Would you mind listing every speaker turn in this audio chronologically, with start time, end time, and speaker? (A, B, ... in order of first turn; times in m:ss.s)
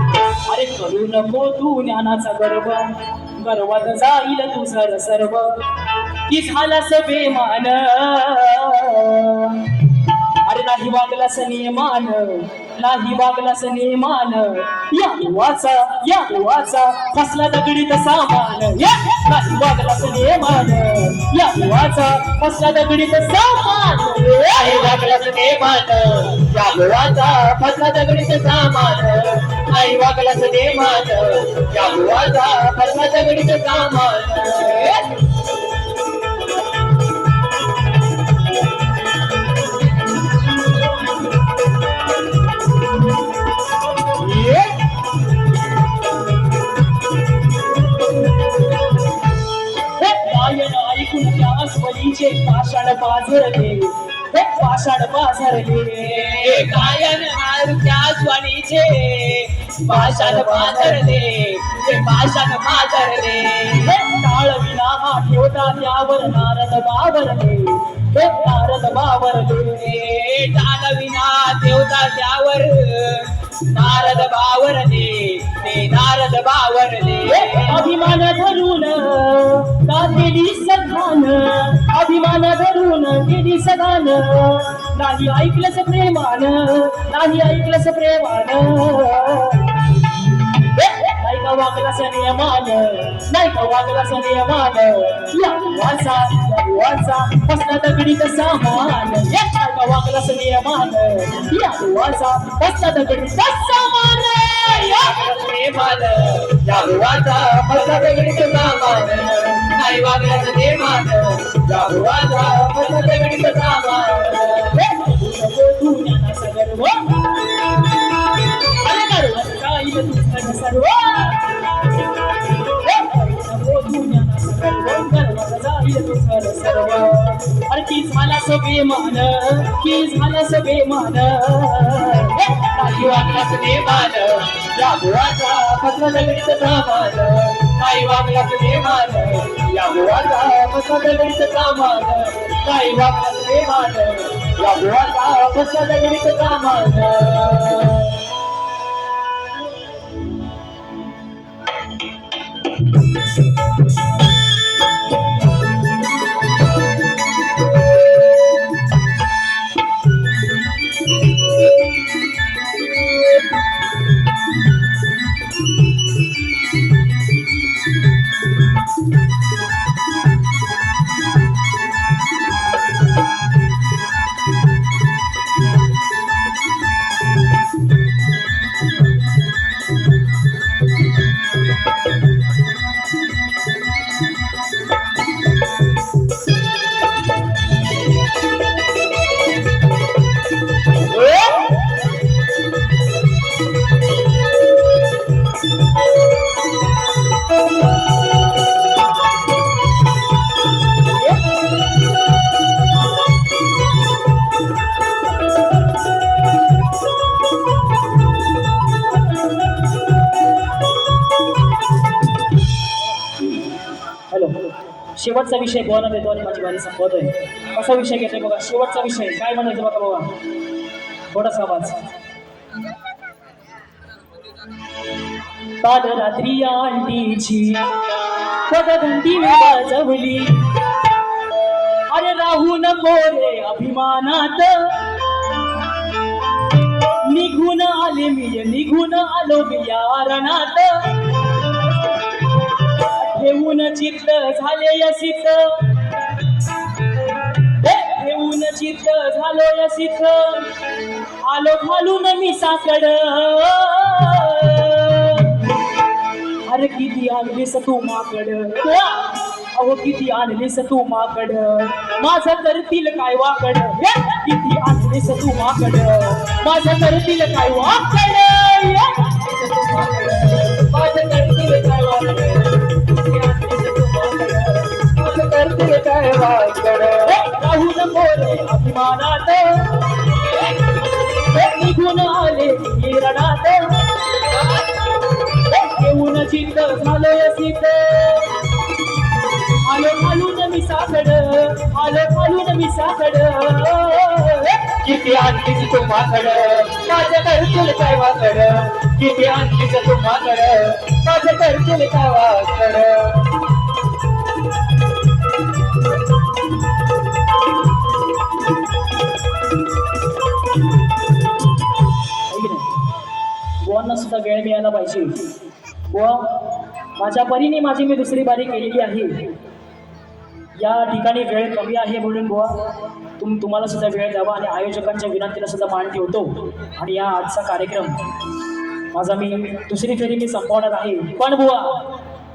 0:00.4-0:05.6 A
0:06.2-0:09.8 A
0:10.4-0:24.7 A
0:24.4-0:35.1 B
0:44.2-0:44.6 B
0:49.8-0:56.9 A
0:56.5-1:03.8 B
0:59.9-1:01.2 A
1:03.7-1:10.1 A
1:10.0-1:17.8 B
1:17.2-1:29.9 A
1:30.5-1:45.1 A
1:44.9-1:54.7 B
1:54.6-1:57.4 A
1:58.8-2:01.6 A
2:02.6-2:13.2 A
2:12.8-2:28.2 B
3:34.3-3:40.4 A
3:41.3-3:42.0 A
3:45.8-3:47.9 A
3:48.7-3:50.7 A
3:52.1-3:55.3 A
3:57.2-4:01.4 A
4:03.0-4:06.0 A
4:07.6-4:10.8 A
4:11.4-4:15.7 A
4:16.6-4:30.7 A
4:30.6-4:37.4 B
4:37.2-4:40.7 A
4:41.4-4:44.4 A
4:45.5-4:48.6 A
4:49.8-4:55.0 A
4:55.0-5:03.5 B
5:12.4-5:13.0 A
5:13.8-5:15.6 A
5:16.1-5:19.6 A
5:20.7-5:28.3 A
5:29.1-5:32.2 A